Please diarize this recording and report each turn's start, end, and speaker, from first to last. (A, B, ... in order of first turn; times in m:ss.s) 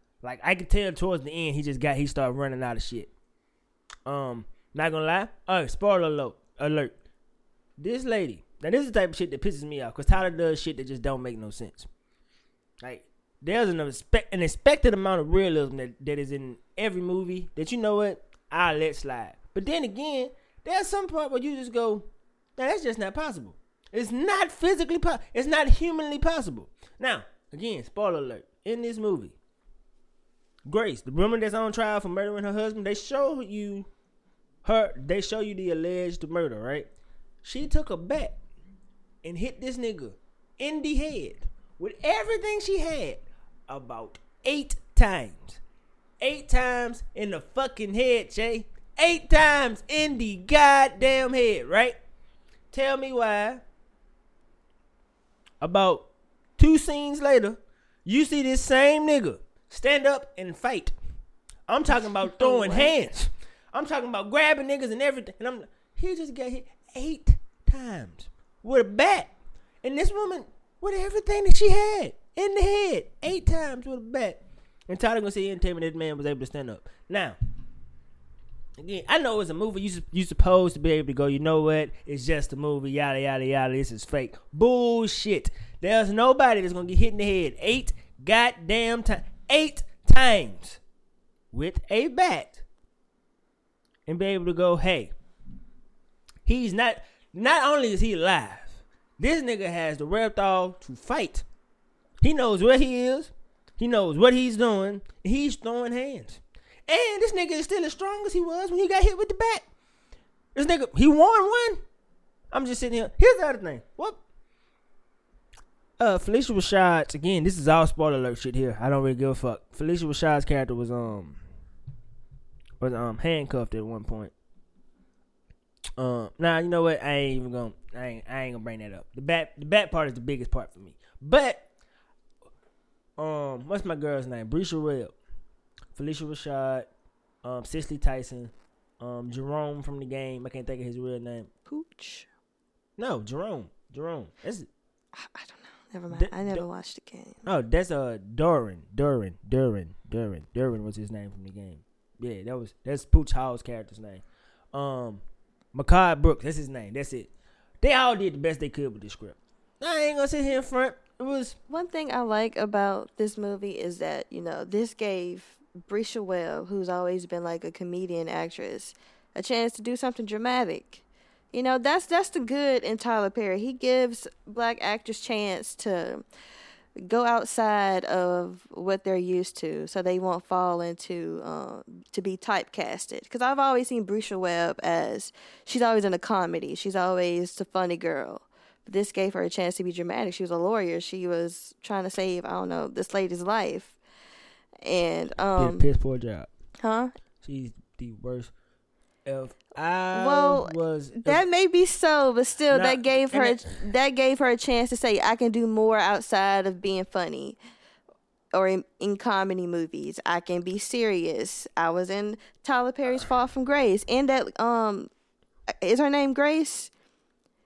0:00.2-0:03.1 A
0:04.0-0:06.9 A
0:07.8-0:11.9 A
0:12.8-0:29.3 A
0:30.6-0:33.9 A
0:34.6-0:36.9 A
0:37.4-0:38.4 A
0:39.2-0:45.6 A
0:46.2-0:52.0 A
0:52.7-0:53.6 A
0:55.6-0:56.0 A
0:56.6-1:00.9 A
1:01.7-1:09.3 A
1:02.0-1:02.9 B
1:09.8-1:17.4 A
1:18.8-1:30.8 A
1:31.5-1:32.6 A
1:34.1-1:35.1 A
1:36.4-1:41.4 A
1:42.2-1:49.6 A
1:50.5-1:51.8 A
1:52.5-1:54.2 A
1:56.0-2:01.4 A
2:02.8-2:04.3 A
2:06.0-2:11.6 A
2:13.2-2:15.1 A
2:15.9-2:16.9 A
2:17.4-2:21.5 A
2:21.7-2:22.3 B
2:23.0-2:24.7 A
2:25.1-2:27.4 B
2:26.1-2:26.6 A
2:27.4-2:35.2 A
2:35.7-2:37.3 A
2:37.8-2:41.6 A
2:41.7-2:56.2 B
2:57.0-3:14.0 B
3:14.8-3:15.8 B
3:15.6-3:16.5 A
3:16.8-3:17.1 B
3:17.4-3:18.5 A
3:19.2-3:21.4 A
3:20.1-3:27.6 B
3:22.7-3:23.8 A
3:28.5-3:35.1 B
3:35.8-3:36.9 B